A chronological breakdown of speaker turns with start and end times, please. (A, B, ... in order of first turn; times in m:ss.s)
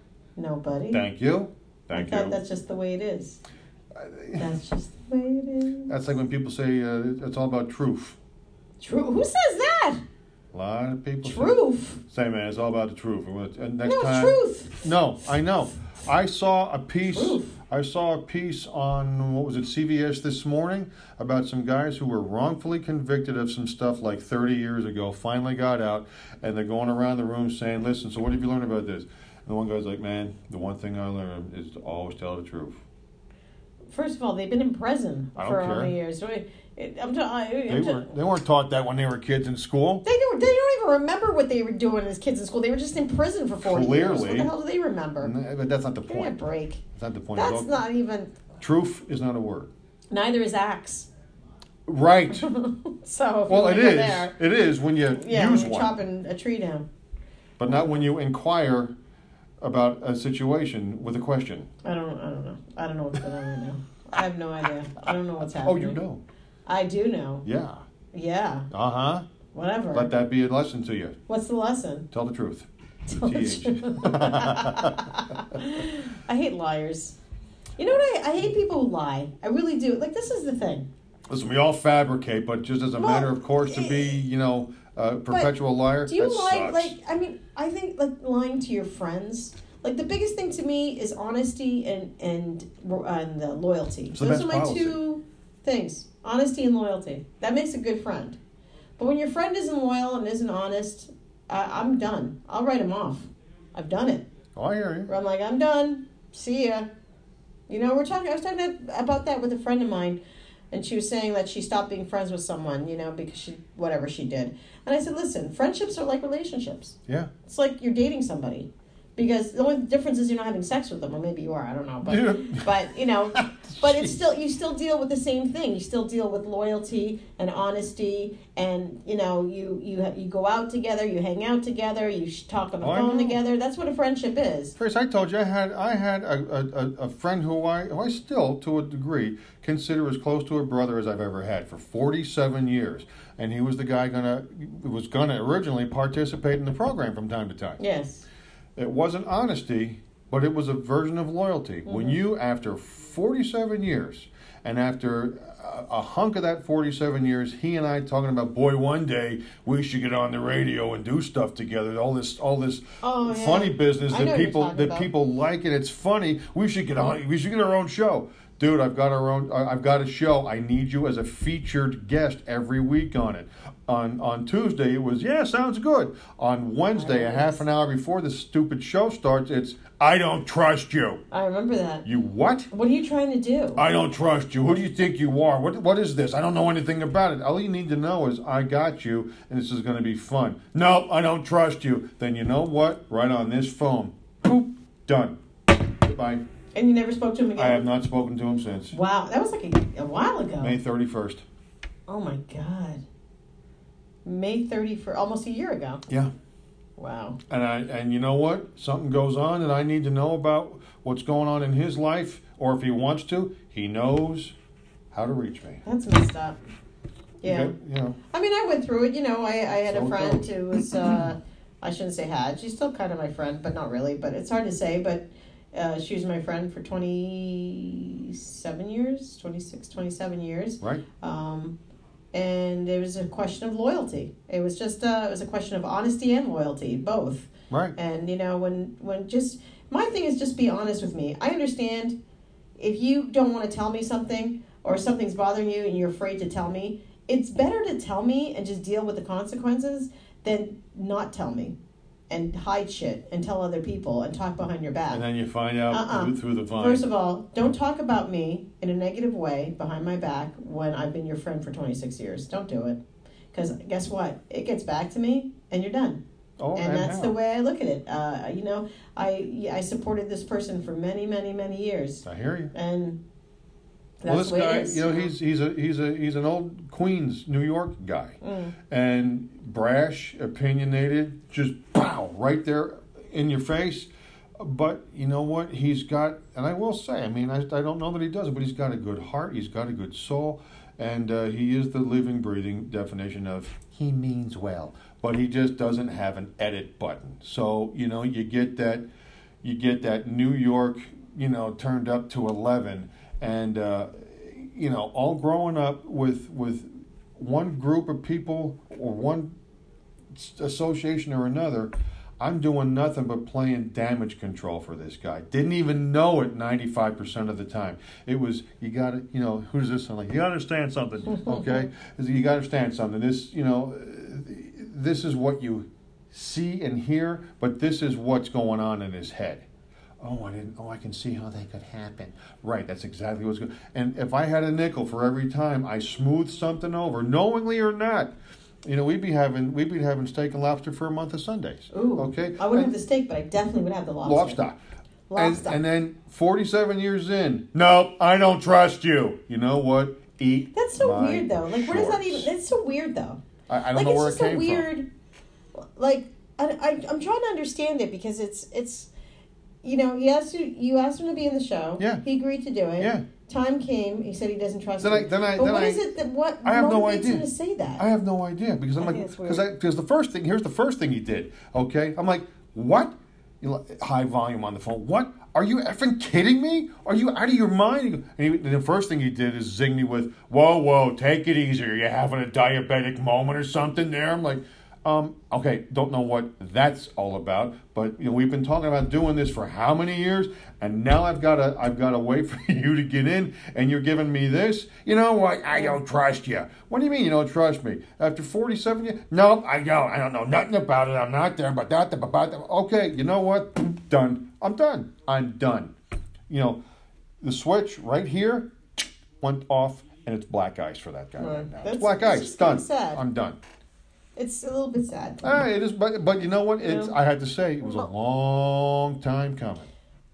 0:00.4-0:01.0 A
0:00.9-0:02.4 B
0:01.9-0:03.4 A
0:03.9-0:04.5 B
0:04.4-0:05.9 A
0:05.9-0:08.2 B
0:08.8-0:10.0 A
0:10.5-0:32.8 B
0:11.2-0:12.0 A
0:13.8-0:14.8 A
0:17.1-0:17.6 A
0:33.9-0:38.1 A
0:35.4-0:35.9 B
0:37.7-0:40.0 B
0:40.0-0:45.3 A
0:43.6-0:44.5 B
0:45.2-0:46.4 B
0:46.1-0:46.8 A
0:46.9-0:47.8 B
0:47.4-0:48.3 A
0:48.6-0:49.7 B
0:50.1-0:51.1 A
0:51.8-0:52.5 B
0:52.3-0:54.3 A
0:53.5-0:56.0 B
0:55.1-0:56.9 A
0:57.6-0:58.9 B
0:57.7-0:58.0 A
0:59.6-1:01.7 B
1:01.8-1:06.0 A
1:05.5-1:06.2 B
1:06.6-1:07.4 A
1:07.4-1:07.8 B
1:08.1-1:08.7 A
1:08.7-1:09.3 B
1:09.5-1:10.1 A
1:09.9-1:11.2 B
1:11.3-1:12.1 A
1:12.1-1:15.1 B
1:13.0-1:17.2 A
1:17.8-1:20.9 A
1:21.3-1:26.9 B
1:23.0-1:24.2 A
1:26.0-1:38.4 A
1:34.1-1:35.0 B
1:39.0-1:44.3 A
1:44.5-1:45.1 B
1:45.1-1:46.9 A
1:47.7-1:50.2 A
1:50.7-2:14.7 A
2:02.0-2:02.8 B
2:03.3-2:04.1 B
2:12.8-2:13.4 B
2:14.8-2:27.8 B
2:27.8-2:28.2 A
2:28.8-3:01.2 B
2:31.8-2:32.2 A
2:43.0-2:45.1 A
2:56.9-2:57.6 A
3:01.3-3:02.0 A
3:02.0-3:02.7 B
3:02.7-3:03.8 A
3:03.8-3:16.4 B
3:16.7-3:17.9 A
3:17.6-3:19.0 B
3:18.9-3:20.8 A
3:20.6-3:21.4 B
3:22.1-3:23.0 A
3:24.2-3:26.0 A
3:27.0-3:27.4 A
3:27.5-3:34.5 B
3:35.1-3:35.8 B
3:35.8-3:36.6 A
3:37.4-3:37.7 A
3:37.4-3:38.2 B
3:38.3-3:51.8 A
3:39.9-3:41.2 B
3:52.3-4:02.2 A
3:57.7-3:58.0 B
4:02.8-4:11.8 A
4:12.3-4:15.2 A
4:15.1-4:17.0 B
4:15.9-4:23.0 A
4:23.5-4:26.2 A
4:26.6-4:27.3 B
4:26.7-4:33.2 A
4:32.2-4:32.7 B
4:34.2-4:35.3 A
4:34.2-4:59.1 B
4:38.4-4:38.8 A
4:59.6-5:09.6 B
5:10.3-5:29.7 B
5:21.4-5:21.8 A
5:30.2-5:38.3 B
5:38.8-5:42.9 B
5:41.9-5:44.6 A
5:44.2-5:44.8 B
5:45.3-5:45.8 A
5:45.3-5:52.5 B
5:50.7-5:53.4 A
5:53.7-5:54.9 B
5:53.9-5:55.1 A
5:55.7-5:59.1 A
5:59.8-6:08.0 A
6:03.0-6:03.2 B
6:05.0-6:06.1 B
6:06.6-6:07.4 B
6:08.0-6:45.9 B
6:09.0-6:09.6 A
6:46.5-6:46.8 B
6:47.4-6:53.6 B
6:51.4-6:53.2 A
6:54.4-6:55.6 A
6:55.4-6:59.9 B
6:56.8-6:57.1 A
6:57.8-6:58.1 A